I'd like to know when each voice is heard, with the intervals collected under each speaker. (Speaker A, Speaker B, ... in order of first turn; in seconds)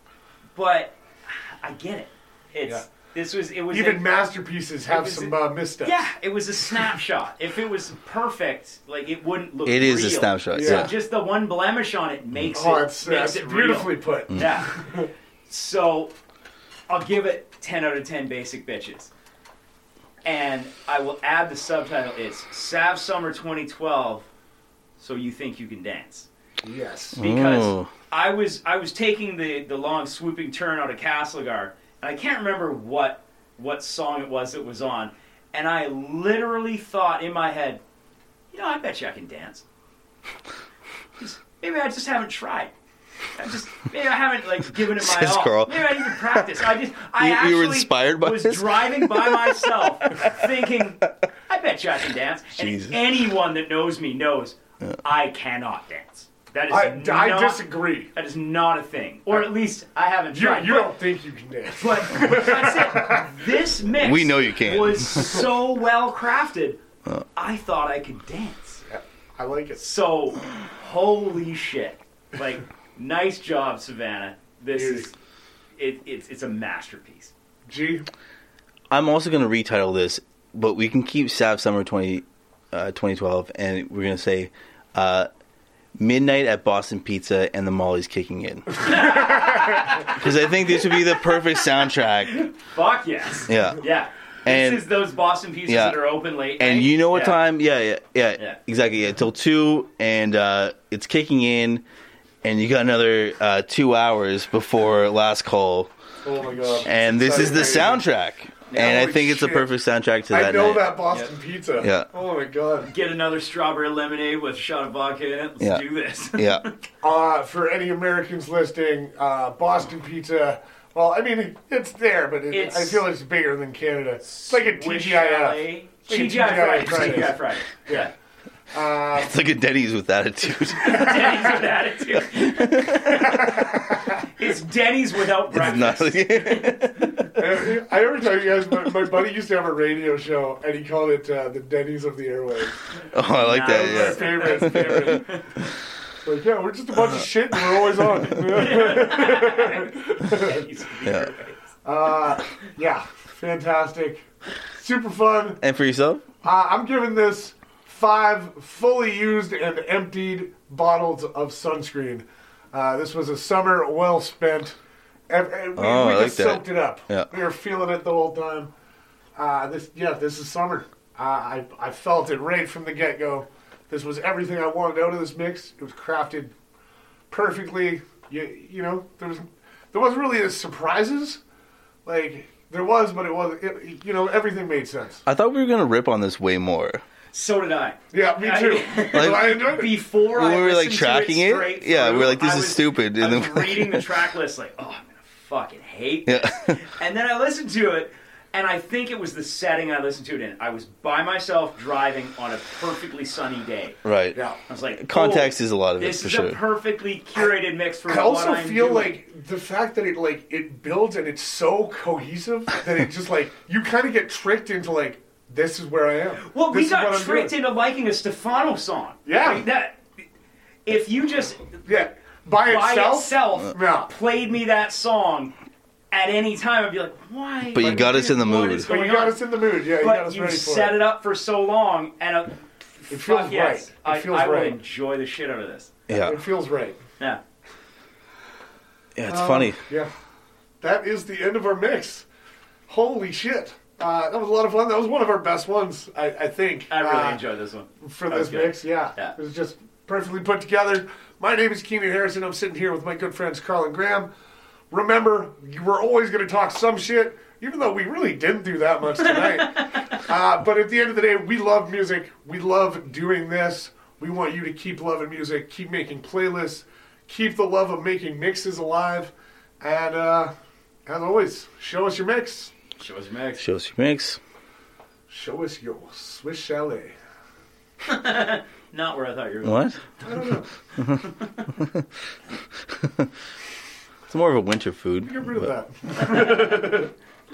Speaker A: 0.5-4.1, 4.9-14.7, 15.5-16.1, 16.9-19.1, 20.2-24.2, 25.0-26.3, 27.2-37.8, 38.5-39.6, 41.2-42.7, 43.3-61.0, 61.8-66.8, 67.3-68.8, 69.8-75.1, 75.8-77.3, 88.8-91.2, 92.3-97.4, 112.8-116.7, 122.5-123.1, 124.2-128.1, 130.8-133.3, 134.3-137.3, 143.2-145.4, 148.3-151.6, 187.3-204.0, 204.7-209.1, 216.4-220.1, 220.8-221.8, 222.6-225.5, 226.1-235.9, 246.9-249.3, 259.3-260.2, 273.0-273.6, 278.0-279.9
Speaker B: 3.7-6.0, 10.5-10.9, 12.5-15.1, 26.6-27.2, 56.7-58.1, 60.3-63.4, 68.9-69.8, 74.7-75.0, 77.7-78.0, 106.2-108.0, 108.7-109.7, 110.3-112.9, 117.0-128.1, 128.7-129.3, 133.2-134.2, 137.3-142.8, 143.6-145.5, 146.2-150.6, 151.8-155.6, 156.4-164.8, 165.3-168.7, 169.3-176.5, 177.3-181.4, 182.0-185.2, 188.1-190.0, 208.1-217.5, 219.2-219.6, 221.8-224.1, 227.8-231.0, 233.1-234.8, 236.1-237.0, 239.3-240.1, 240.8-242.2, 242.9-247.4, 248.0-254.3, 254.9-270.5, 271.1-272.7, 275.3-277.1, 280.2-280.6, 285.2-287.1
Speaker C: 9.6-10.9, 27.1-27.9, 45.0-46.5, 47.2-50.5, 52.5-53.0, 64.0-65.4, 78.9-85.3, 86.0-92.5, 93.5-93.8, 94.5-94.9, 95.7-101.8, 102.4-105.9, 106.8-111.1, 111.8-112.1, 115.6-116.6, 129.1-131.6, 132.1-133.7, 135.5-137.6, 143.1-145.2, 147.0-148.2, 151.0-151.3, 155.6-156.2, 165.8-167.3, 185.2-187.0, 189.1-194.1, 196.2-196.8, 204.0-204.4, 204.9-206.6, 227.7-228.9, 236.1-236.4, 239.2-239.8, 273.6-274.4, 279.6-280.0, 281.0-281.2, 281.8-282.0, 282.9-283.3, 284.3-285.7